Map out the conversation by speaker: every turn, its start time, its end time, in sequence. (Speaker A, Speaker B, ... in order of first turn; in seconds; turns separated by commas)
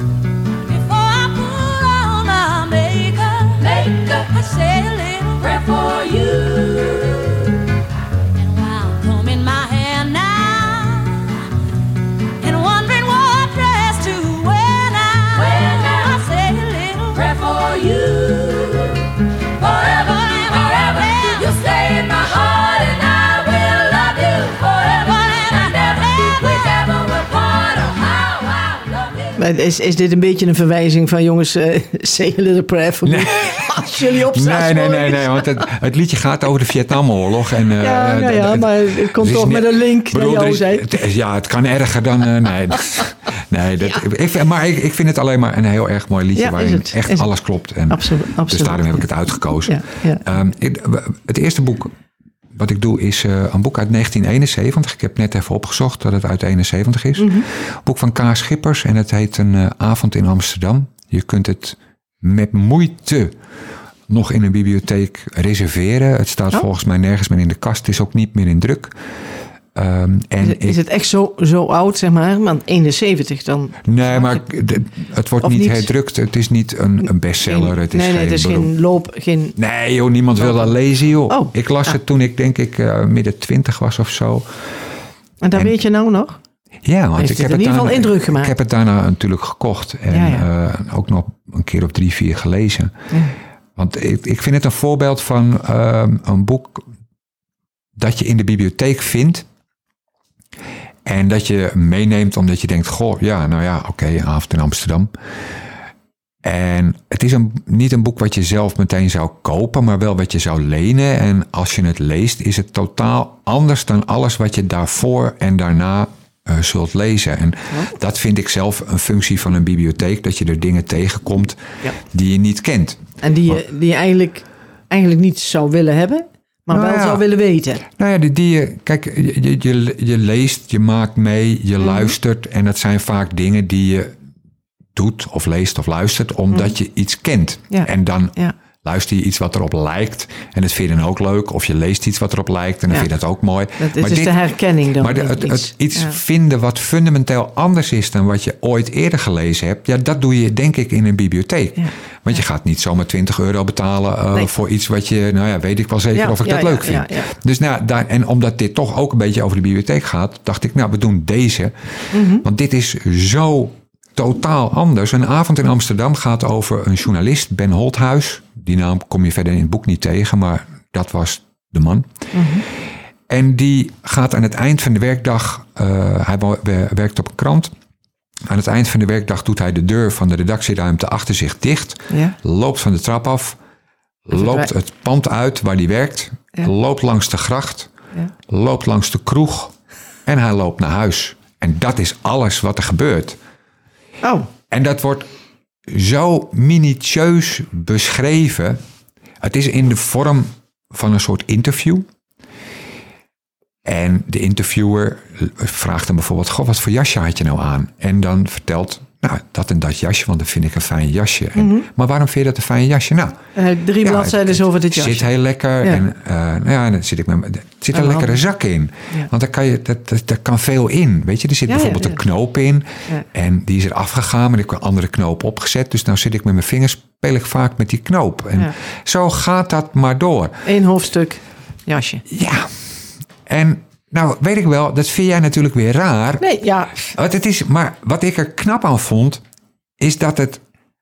Speaker A: 0.7-7.7, Speaker A: 8.3-11.5, Speaker A: 12.4-29.4, Speaker B: 29.4-35.7, Speaker C: 33.0-51.9, Speaker B: 37.8-41.0, Speaker B: 46.4-47.3, Speaker B: 47.9-49.0, Speaker B: 49.6-50.3, Speaker C: 52.5-63.4, Speaker B: 57.2-57.5, Speaker C: 64.1-69.0, Speaker C: 69.7-70.8, Speaker B: 70.4-74.4, Speaker C: 73.8-78.7, Speaker B: 75.4-75.9, Speaker B: 77.5-79.5, Speaker C: 79.5-84.5, Speaker B: 80.4-80.7, Speaker B: 81.3-81.9, Speaker B: 85.4-86.4, Speaker C: 86.8-92.9, Speaker B: 87.2-88.5, Speaker B: 90.1-90.5, Speaker C: 93.8-96.8, Speaker C: 98.0-99.5, Speaker C: 101.0-105.1, Speaker C: 106.4-123.0, Speaker B: 123.2-127.8, Speaker C: 126.7-127.2, Speaker C: 127.9-134.2, Speaker B: 131.8-132.1, Speaker C: 134.9-144.4, Speaker B: 137.7-138.5, Speaker B: 143.8-146.2, Speaker C: 145.0-161.7, Speaker B: 156.1-157.3, Speaker B: 162.1-162.4, Speaker C: 162.4-172.1, Speaker B: 172.3-172.7, Speaker C: 173.3-177.7, Speaker C: 178.5-183.6, Speaker B: 182.1-182.3, Speaker C: 184.3-187.9, Speaker B: 184.3-184.7, Speaker C: 188.5-189.7, Speaker C: 190.3-193.4, Speaker B: 194.2-194.5, Speaker C: 194.7-195.3, Speaker C: 195.9-198.8, Speaker C: 199.4-202.1, Speaker C: 203.8-213.4, Speaker B: 211.6-211.8, Speaker B: 213.6-215.3, Speaker C: 214.0-230.6, Speaker B: 217.9-218.3, Speaker B: 221.7-222.2, Speaker B: 230.7-232.2, Speaker C: 232.3-232.7, Speaker C: 233.5-236.4, Speaker B: 236.4-237.1, Speaker C: 237.0-239.4, Speaker C: 240.0-240.6